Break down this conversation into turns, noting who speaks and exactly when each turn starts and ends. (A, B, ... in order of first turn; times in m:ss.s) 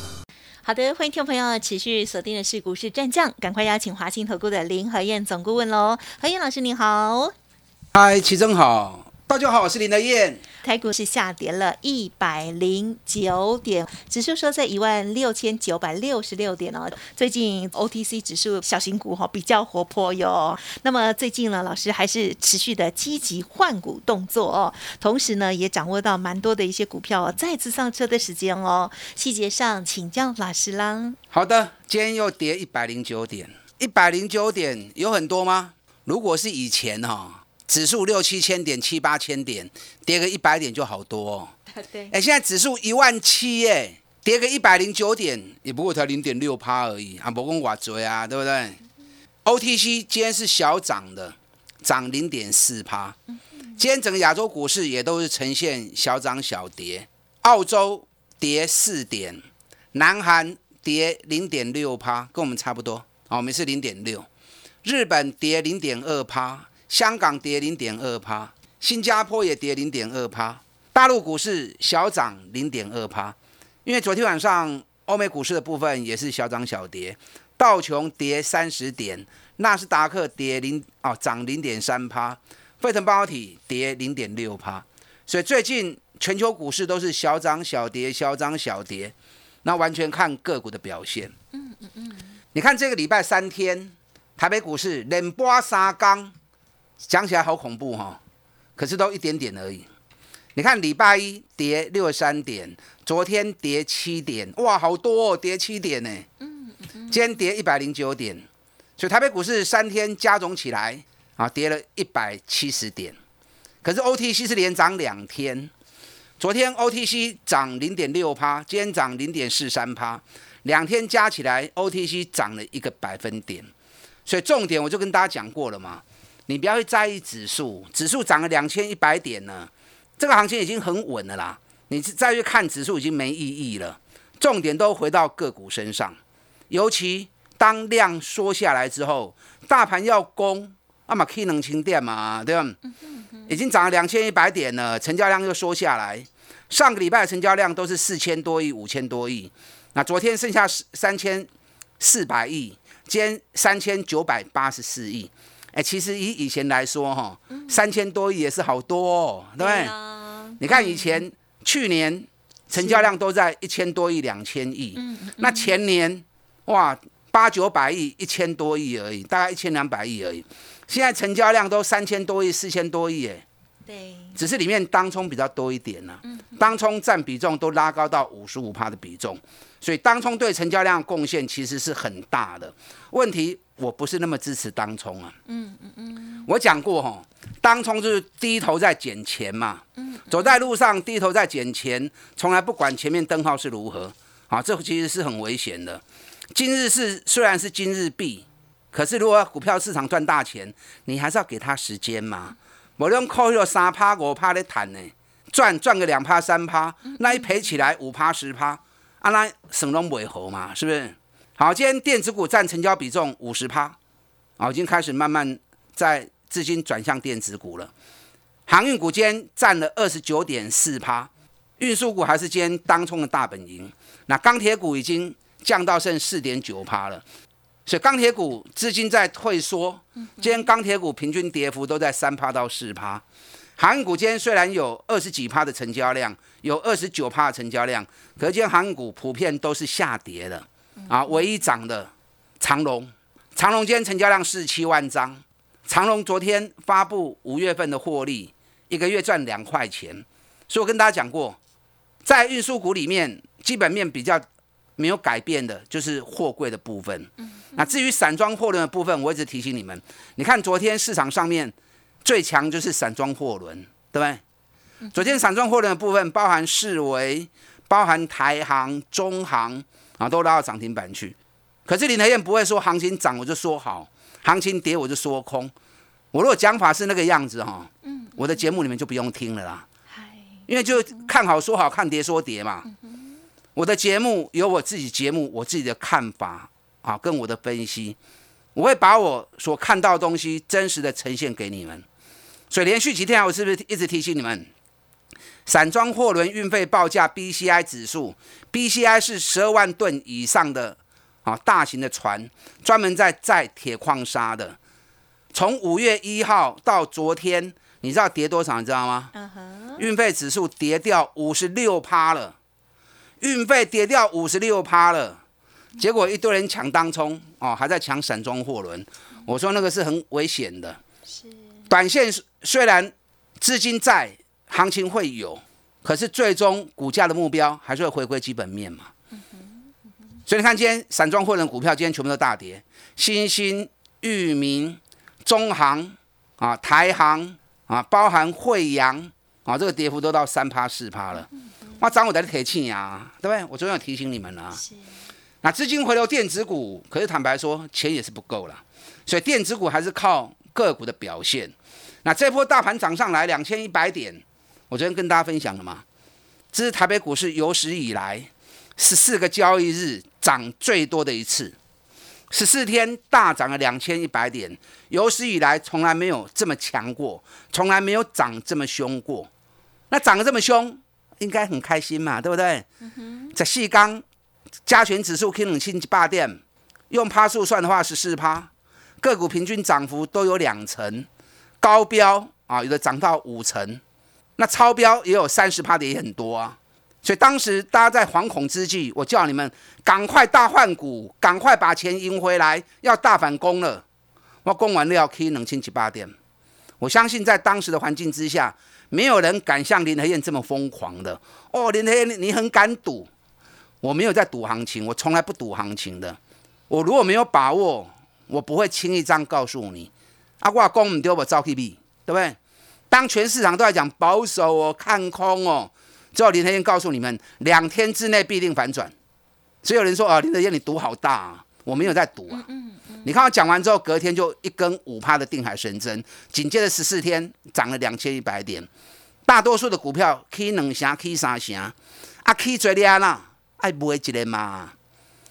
0:00.6-0:07.3 A
0:07.9-0:10.4 B
0:10.6-0:31.2 A
0:31.3-0:41.5 B
0:41.7-0:42.1 A
0:42.1-0:48.8 B
0:49.4-0:53.2 B
0:53.8-0:59.4 B
0:59.9-1:04.3 B
1:04.8-1:31.3 B
1:31.5-1:32.3 A
1:32.5-1:36.3 B
1:37.0-1:38.2 B
1:38.8-1:39.9 B
1:40.6-1:46.3 B
1:46.4-1:47.2 A
1:47.1-1:48.4 B
1:49.0-1:53.2 B
1:53.8-1:55.7 B
1:56.4-2:03.7 B
2:04.3-2:16.2 B
2:16.7-2:22.8 B
2:23.5-2:31.5 B
2:32.0-2:39.9 B
2:37.5-2:37.8 A
2:39.6-2:41.2 A
2:40.6-2:53.4 B
2:42.8-2:43.1 A
2:45.0-2:45.8 A
2:53.9-2:54.4 A
2:54.3-3:05.3 B
2:56.3-2:56.6 A
3:05.5-3:06.4 A
3:06.4-3:16.0 B
3:10.0-3:10.5 A
3:16.5-3:34.0 B
3:34.6-3:37.9 B
3:38.7-3:47.2 B
3:47.8-3:53.2 B
3:53.8-4:11.6 B
4:12.2-4:14.4 B
4:15.0-4:24.4 B
4:25.1-4:35.7 B
4:36.3-4:39.8 B
4:38.1-4:38.4 A
4:40.1-4:40.6 A
4:40.7-4:42.9 B
4:43.8-4:48.2 B
4:48.8-4:52.0 B
4:52.7-4:54.7 B
4:55.6-5:04.8 B
5:05.5-5:09.3 B
5:09.3-5:10.1 A
5:10.0-5:12.6 B
5:13.4-5:15.4 B
5:16.0-5:21.0 B
5:21.9-5:29.1 B
5:30.5-5:41.5 B
5:42.0-5:44.8 B
5:45.6-5:51.7 B
5:52.2-5:56.0 B
5:56.7-6:01.8 B
6:02.5-6:09.5 B
6:10.1-6:12.9 B
6:13.5-6:14.2 B
6:14.8-6:18.7 B
6:19.2-6:21.3 B
6:21.8-6:24.0 B
6:24.6-6:34.0 B
6:34.6-6:36.3 B
6:37.0-6:43.3 B
6:44.0-6:46.4 B
6:46.9-6:50.1 B
6:50.6-6:52.6 B
6:53.1-6:59.1 B
6:59.8-7:02.6 B
7:02.5-7:03.3 A
7:03.2-7:08.9 B
7:09.4-7:14.9 B